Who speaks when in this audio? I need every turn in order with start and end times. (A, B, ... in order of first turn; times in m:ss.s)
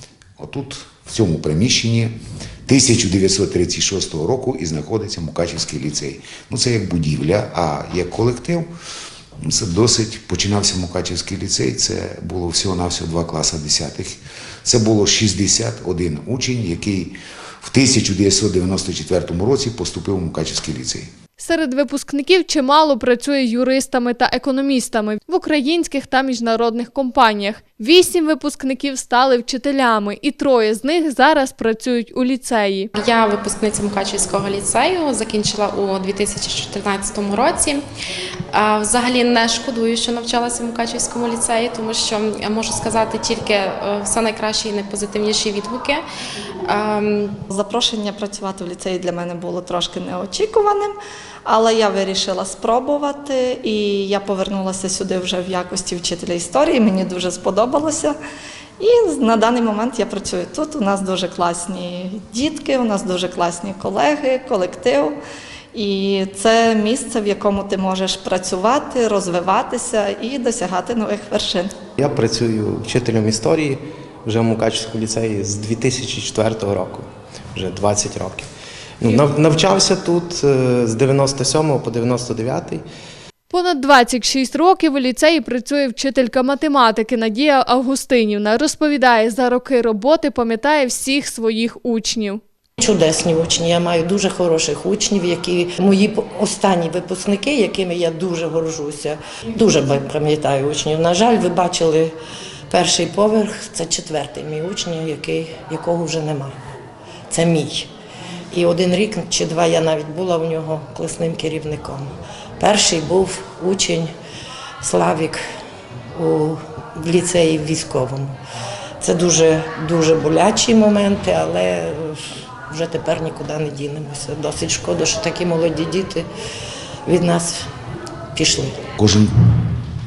0:00.4-0:02.1 A
0:02.6-0:08.7 A
0:09.4-0:21.1 A
0:21.4-0:32.9 B
0:32.9-0:37.8 C
0:38.5-0:46.0 C
0:46.6-0:47.4 C
0:47.5-0:58.2 D
0:58.8-1:05.2 D
1:05.7-1:11.7 D
1:12.0-1:18.5 E
1:19.0-1:22.8 E
1:23.5-1:32.4 B
1:32.8-1:42.1 F
1:42.7-1:46.5 F
1:47.3-1:47.9 F
1:48.5-1:52.1 F
1:52.6-1:54.1 F
1:54.8-1:55.4 F
1:56.1-1:58.4 F
1:59.0-2:06.2 F
2:07.0-2:07.6 F
2:08.3-2:08.8 F
2:09.0-2:09.6 A